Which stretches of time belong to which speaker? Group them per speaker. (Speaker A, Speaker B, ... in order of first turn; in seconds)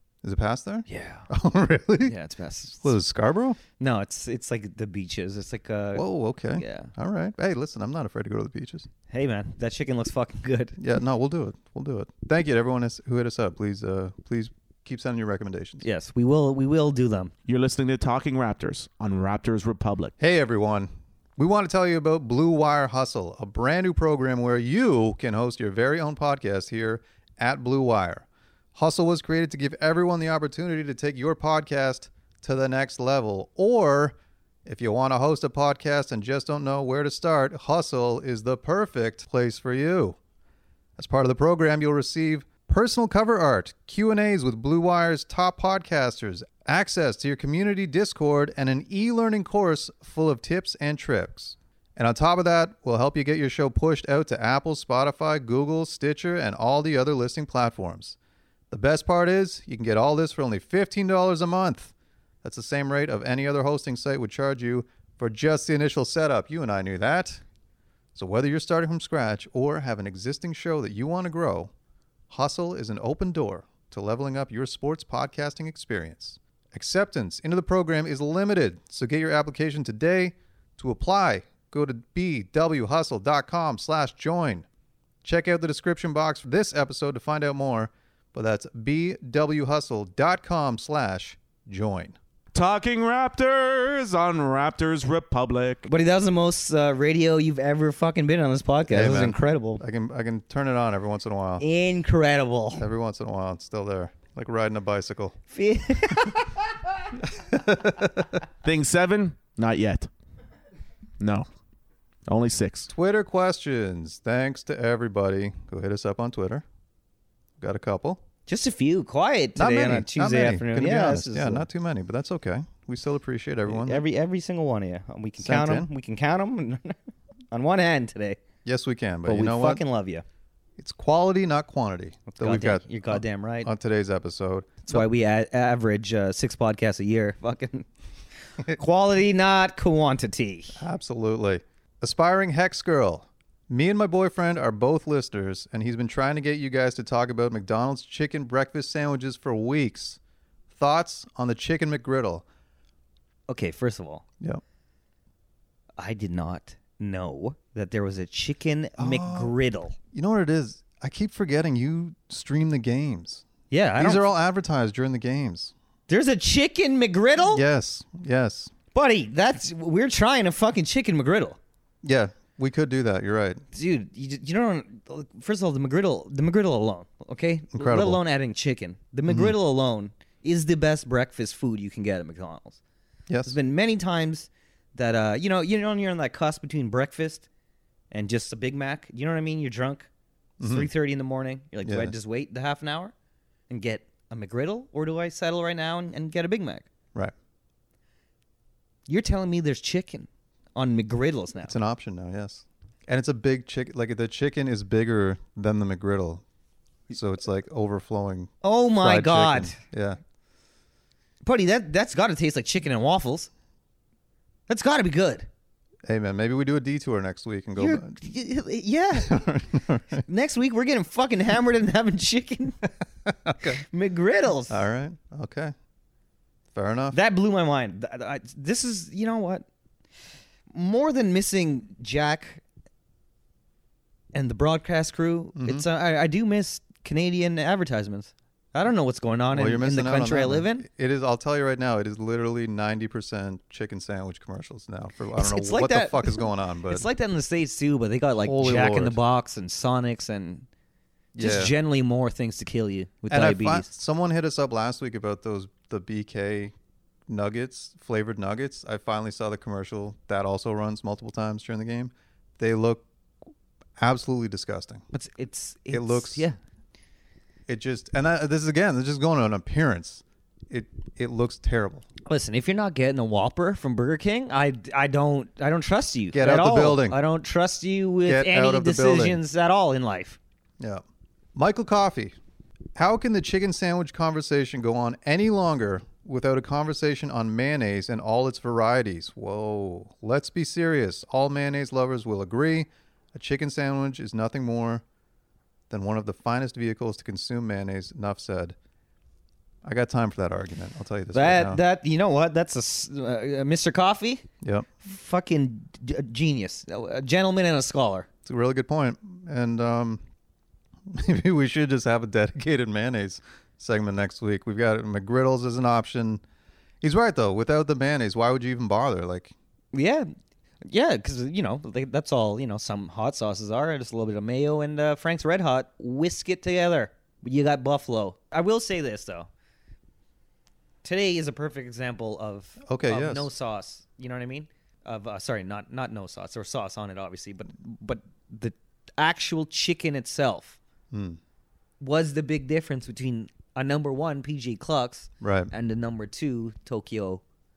Speaker A: 0.2-2.1, 2.8-3.6, 5.9-8.9, 10.8-15.8, 20.2-40.2, 41.0-58.1, 58.7-67.4, 68.1-71.7, 72.3-84.7, 85.2-92.2, 98.9-101.6, 102.8-105.4, 107.3-108.3, 112.9-116.6, 117.6-118.2, 119.5-124.0, 125.4-125.9, 128.6-129.8, 130.8-135.1, 140.8-150.2, 150.7-152.4, 159.0-159.5, 160.1-163.4, 164.0-165.7, 167.4-168.7, 172.0-173.6, 177.7-178.2, 179.3-179.5, 183.3-183.5, 190.6-190.9, 191.8-192.1, 201.6-206.4, 207.1-210.2, 216.1-218.2, 219.1-220.2, 223.2-223.8, 224.7-225.7, 226.7-227.2, 235.6-235.8, 239.5-247.1, 248.4-249.2, 251.3-251.7, 253.3-256.7, 257.3-263.1, 264.0-265.0, 265.9-266.5, 267.7-272.1, 276.3-277.2, 278.2-279.4, 281.5-282.3, 282.9-295.0, 295.9-298.8, 299.8-301.8, 304.6-304.9, 308.4-310.2, 311.1-316.4, 317.0-319.5, 332.8-333.5, 341.1-341.4, 345.4-345.7
Speaker B: 0.9-1.3, 2.0-2.9, 3.8-6.9, 9.1-10.8, 15.8-17.3, 95.8-99.8, 101.6-102.8, 105.5-106.7, 118.5-121.7, 123.7-127.0, 127.5-128.4, 129.2-130.2, 132.3-133.7, 134.8-137.9, 138.7-140.8, 153.5-154.2, 156.0-159.9, 163.7-164.3, 166.1-167.6, 168.9-171.6, 173.7-182.8, 183.4-187.4, 188.1-190.1, 190.6-193.1, 193.7-196.9, 199.1-201.7, 208.6-209.8, 211.4-213.5, 214.7-215.5, 217.8-219.5, 220.2-222.9, 223.7-224.8, 227.1-229.7, 230.7-232.6, 234.3-240.8, 245.3-250.7, 251.4-253.9, 265.1-266.6, 272.2-280.4, 301.3-304.4, 305.0-308.3, 319.9-320.3, 320.8-329.5, 331.0-340.8, 342.0-347.4
Speaker C: 17.4-20.1, 92.5-95.9, 108.6-110.1, 111.2-111.5, 112.3-112.9